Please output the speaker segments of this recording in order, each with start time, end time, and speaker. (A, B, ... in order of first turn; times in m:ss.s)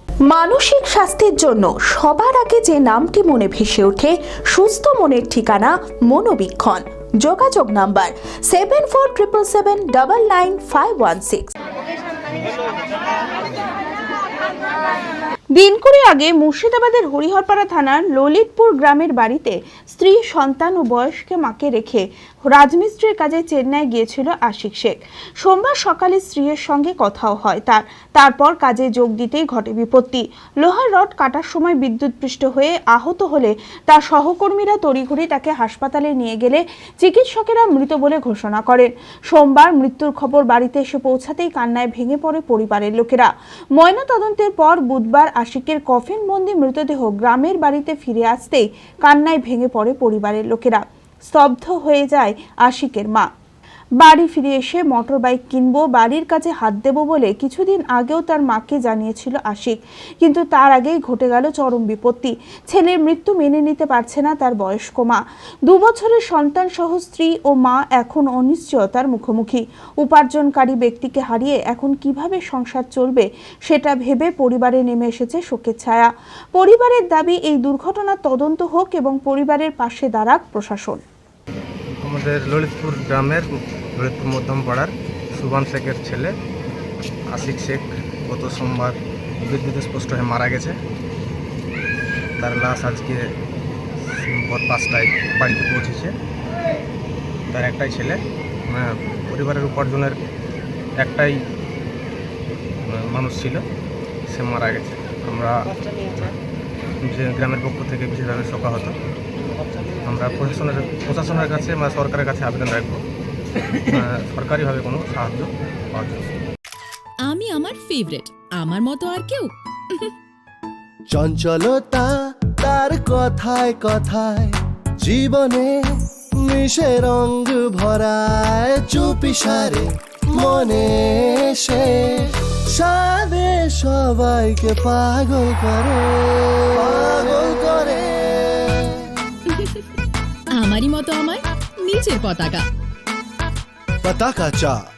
0:00.3-0:04.0 A
0:04.5-0:11.3 A
0:15.5-0:53.3 A
0:54.0-1:21.0 A
1:22.0-1:23.4 B
1:24.0-1:26.3 B
1:27.3-1:30.8 B
1:32.4-1:33.2 B
1:34.2-1:36.1 B
1:37.5-1:38.2 B
1:38.7-1:40.2 B
1:41.0-1:41.3 B
1:42.8-1:43.6 B
1:44.3-1:46.3 B
1:47.1-1:48.9 B
1:50.0-1:53.0 B
1:53.9-1:56.3 B
1:57.2-2:00.1 C
2:01.2-2:02.0 D
2:02.6-2:04.5 D
2:05.1-2:05.6 D
2:06.5-2:09.8 D
2:10.4-2:10.9 D
2:12.8-2:15.9 D
2:16.8-2:18.0 D
2:19.5-2:19.8 C
2:20.5-2:22.7 C
2:24.1-2:24.7 D